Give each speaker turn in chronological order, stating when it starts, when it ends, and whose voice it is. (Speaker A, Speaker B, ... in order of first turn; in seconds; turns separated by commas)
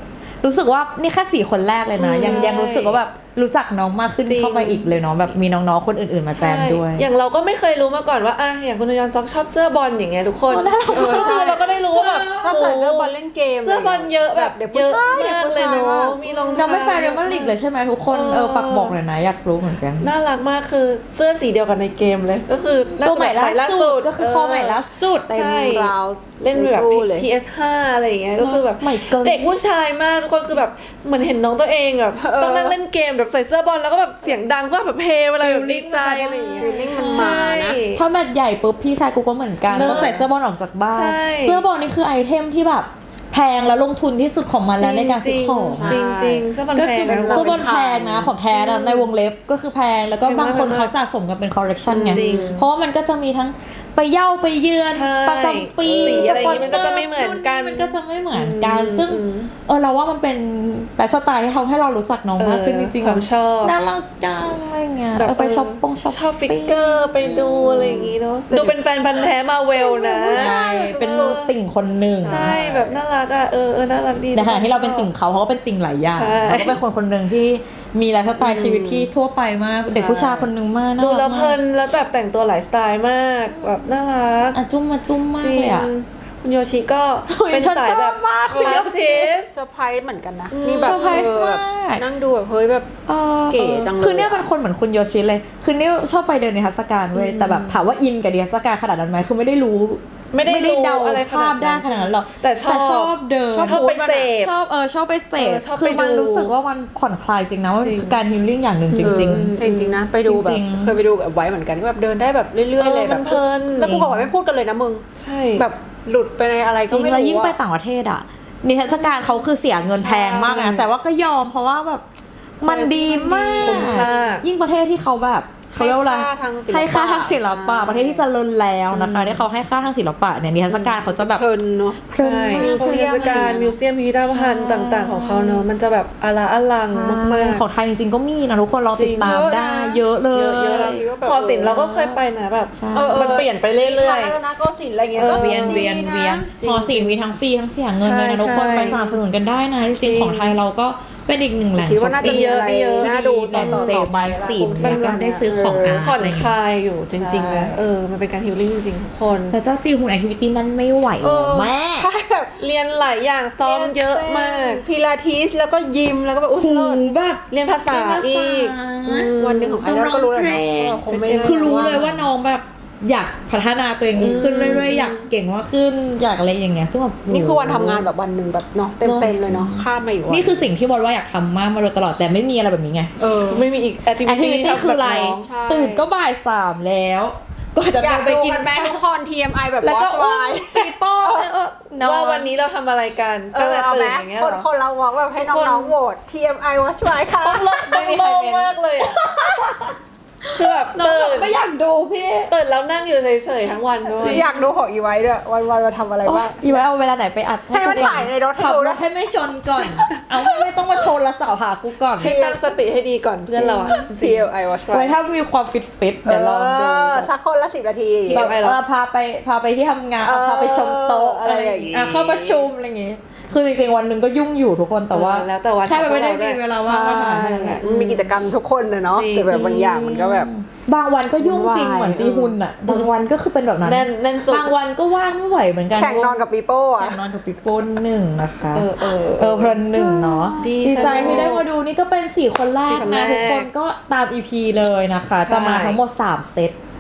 Speaker A: 0.4-7.1, Speaker B: 2.0-3.0, Speaker C: 2.0-2.5, Speaker B: 4.3-5.3, Speaker B: 6.3-19.0, Speaker A: 10.5-12.7, Speaker C: 10.9-11.7, Speaker C: 12.4-16.7, Speaker A: 16.5-20.1, Speaker B: 20.0-38.0, Speaker A: 22.9-25.3, Speaker C: 25.3-27.3, Speaker A: 28.4-29.5, Speaker C: 32.2-32.8, Speaker A: 35.4-46.0, Speaker C: 36.6-37.8, Speaker B: 39.7-40.2, Speaker C: 39.7-40.3, Speaker B: 40.9-41.7, Speaker B: 44.8-47.9, Speaker C: 45.7-46.5, Speaker A: 46.7-68.8, Speaker C: 47.1-48.3, Speaker B: 48.5-49.1, Speaker B: 50.2-50.9, Speaker B: 51.9-52.7, Speaker C: 52.1-52.5, Speaker B: 54.9-59.5, Speaker C: 55.8-56.8, Speaker B: 62.4-63.9, Speaker B: 65.2-71.5, Speaker C: 67.7-68.6, Speaker C: 69.8-71.5, Speaker A: 70.3-72.6, Speaker C: 72.1-73.0, Speaker B: 72.2-75.1, Speaker A: 74.3-81.6, Speaker B: 76.1-76.8, Speaker C: 78.4-79.1, Speaker C: 79.9-80.5, Speaker B: 81.0-84.6, Speaker A: 83.5-84.0, Speaker A: 84.5-85.9, Speaker B: 85.4-89.5, Speaker A: 87.3-89.3, Speaker C: 88.5-92.9, Speaker B: 90.5-91.3, Speaker A: 90.6-92.0, Speaker A: 93.1-109.5, Speaker C: 93.5-94.5, Speaker B: 97.2-97.8, Speaker B: 100.3-104.5, Speaker C: 103.5-104.3, Speaker B: 105.4-106.5, Speaker B: 107.8-108.2, Speaker B: 108.9-110.0, Speaker C: 109.0-115.0, Speaker A: 110.2-111.0, Speaker B: 112.8-114.0, Speaker A: 113.8-114.3, Speaker B: 115.2-115.7, Speaker C: 115.6-117.6, Speaker A: 116.9-122.0, Speaker C: 119.9-120.9, Speaker A: 122.6-131.5, Speaker C: 122.7-124.3, Speaker B: 122.8-124.5, Speaker C: 125.8-128.2, Speaker B: 128.9-129.4, Speaker B: 130.7-131.2, Speaker C: 131.2-133.6, Speaker A: 132.1-133.8, Speaker B: 132.2-137.7, Speaker A: 134.3-135.7, Speaker A: 136.8-141.0, Speaker B: 138.9-139.4, Speaker C: 139.2-140.0, Speaker B: 140.3-144.4, Speaker C: 140.6-141.9, Speaker A: 141.7-142.2, Speaker A: 142.8-143.3, Speaker C: 142.9-146.5, Speaker B: 145.1-146.0, Speaker A: 145.2-156.6, Speaker B: 146.6-147.2, Speaker B: 148.0-149.2, Speaker B: 149.9-150.6, Speaker C: 151.8-156.0, Speaker B: 152.2-154.1, Speaker B: 154.8-155.2, Speaker B: 156.0-159.6, Speaker C: 157.1-157.8, Speaker A: 159.5-162.1, Speaker C: 161.2-162.6, Speaker B: 162.6-164.8, Speaker C: 163.6-167.1, Speaker A: 166.6-178.1, Speaker B: 167.5-169.8, Speaker C: 169.4-172.2, Speaker B: 171.1-172.1, Speaker B: 174.2-175.3, Speaker C: 174.2-174.9, Speaker C: 177.3-180.7, Speaker B: 179.0-179.4, Speaker A: 179.2-183.1, Speaker C: 183.2-183.7, Speaker B: 183.5-185.5, Speaker A: 184.2-189.0, Speaker C: 185.4-186.1, Speaker C: 188.0-191.5, Speaker A: 189.8-192.5, Speaker B: 192.0-194.7, Speaker C: 193.5-197.7, Speaker B: 195.4-196.0, Speaker B: 197.4-199.3, Speaker A: 197.7-199.9, Speaker A: 200.5-202.5, Speaker B: 200.5-201.6, Speaker B: 202.5-204.5, Speaker C: 204.1-206.8, Speaker A: 204.2-204.7, Speaker A: 206.2-212.3, Speaker C: 207.7-209.0, Speaker C: 209.8-211.0, Speaker B: 212.1-214.5, Speaker C: 212.2-212.6, Speaker C: 213.6-215.2, Speaker A: 214.9-217.3, Speaker C: 216.2-218.5, Speaker B: 218.2-218.8, Speaker A: 218.3-227.8, Speaker C: 220.2-222.7, Speaker B: 225.1-226.6, Speaker C: 226.8-230.5, Speaker B: 227.8-228.3, Speaker B: 229.1-229.6, Speaker A: 229.5-236.5, Speaker C: 231.4-232.6, Speaker B: 233.8-234.7, Speaker C: 235.9-237.2, Speaker A: 237.0-246.8, Speaker B: 238.7-239.8, Speaker C: 239.9-241.5, Speaker B: 240.6-241.7, Speaker B: 242.8-243.7, Speaker B: 245.4-246.0